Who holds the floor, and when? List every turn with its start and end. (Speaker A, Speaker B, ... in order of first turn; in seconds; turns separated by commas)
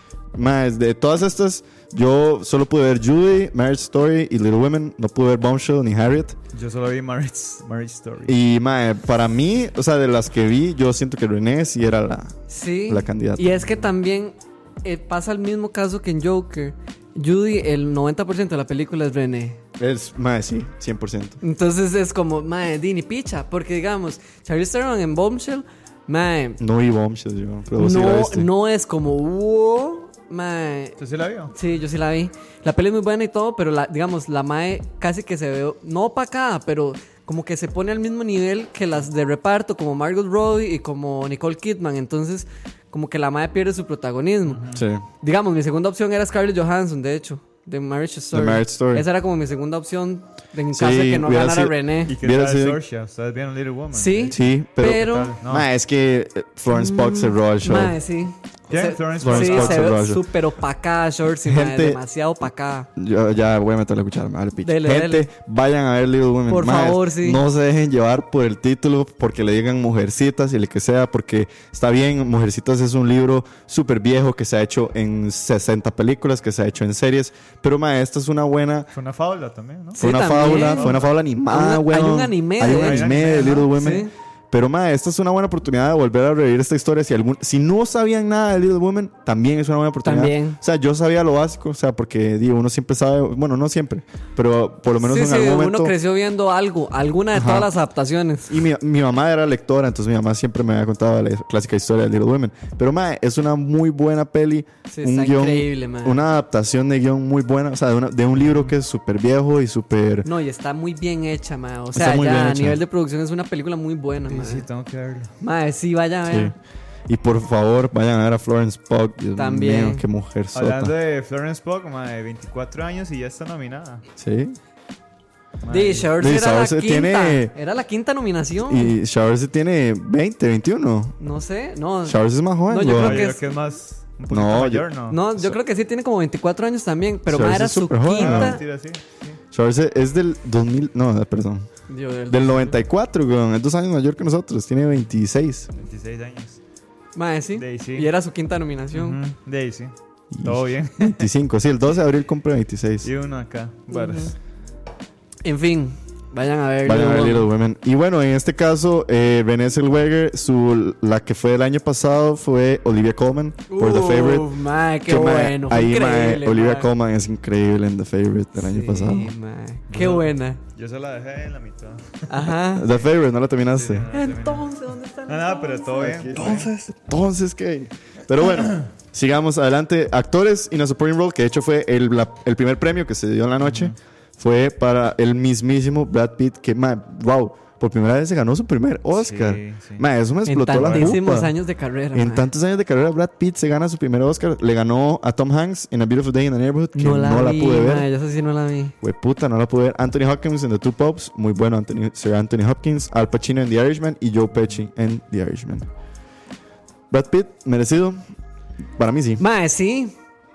Speaker A: 0.3-6.4, Speaker B: 6.5-8.3, Speaker A: 8.3-13.6, Speaker C: 12.5-19.6, Speaker A: 19.8-21.4, Speaker C: 21.4-26.6, Speaker A: 26.6-28.5, Speaker C: 27.8-31.0, Speaker B: 31.0-31.5, Speaker C: 31.5-44.6, Speaker B: 44.5-44.9, Speaker A: 44.7-45.0, Speaker C: 45.2-52.1, Speaker A: 48.3-49.0, Speaker A: 50.7-52.8, Speaker B: 52.1-54.4, Speaker C: 53.9-55.4, Speaker A: 54.3-58.0, Speaker B: 55.0-55.7, Speaker C: 56.7-62.9, Speaker B: 58.7-60.0, Speaker A: 59.2-60.3, Speaker A: 61.5-62.0, Speaker A: 63.0-78.9, Speaker C: 64.6-65.3, Speaker C: 66.5-67.4, Speaker B: 78.9-81.1, Speaker C: 79.9-80.9, Speaker A: 80.0-96.0, Speaker C: 81.5-84.1, Speaker B: 82.6-84.0, Speaker C: 90.0-90.6, Speaker C: 95.0-98.6, Speaker A: 97.3-97.7, Speaker A: 98.5-110.3, Speaker C: 104.9-106.2, Speaker B: 108.4-108.8, Speaker C: 110.2-114.7, Speaker A: 112.0-112.8, Speaker B: 114.2-115.3, Speaker C: 115.4-116.6, Speaker A: 116.3-116.5, Speaker A: 117.1-120.9, Speaker C: 119.4-120.0, Speaker B: 120.5-124.0, Speaker A: 124.2-124.6, Speaker B: 125.6-126.2, Speaker C: 125.7-128.9, Speaker A: 126.2-127.5, Speaker A: 128.7-131.2, Speaker C: 131.2-133.4, Speaker A: 132.1-133.3, Speaker B: 132.8-135.2, Speaker A: 134.3-135.6, Speaker C: 135.1-138.6, Speaker A: 137.3-138.6, Speaker B: 138.2-139.4, Speaker A: 139.5-141.7, Speaker C: 141.9-142.8, Speaker A: 142.3-145.7, Speaker B: 145.8-146.6, Speaker C: 147.2-149.2, Speaker B: 147.6-148.1, Speaker B: 148.9-151.3, Speaker A: 150.3-153.1, Speaker B: 153.0-154.3, Speaker C: 153.9-154.3, Speaker C: 155.4-157.5, Speaker A: 156.8-169.3, Speaker C: 163.7-166.9, Speaker C: 168.6-170.6, Speaker B: 169.9-172.3, Speaker C: 172.3-172.9, Speaker A: 172.7-174.1, Speaker B: 173.7-174.7, Speaker C: 174.1-176.3, Speaker B: 175.3-176.7, Speaker A: 176.0-191.6, Speaker B: 183.6-183.9, Speaker B: 189.1-190.1, Speaker C: 190.5-192.5, Speaker B: 190.8-191.2, Speaker A: 192.1-198.1, Speaker C: 196.9-198.9, Speaker A: 199.0-205.9, Speaker A: 207.1-208.2, Speaker A: 209.0-209.4, Speaker C: 209.4-210.2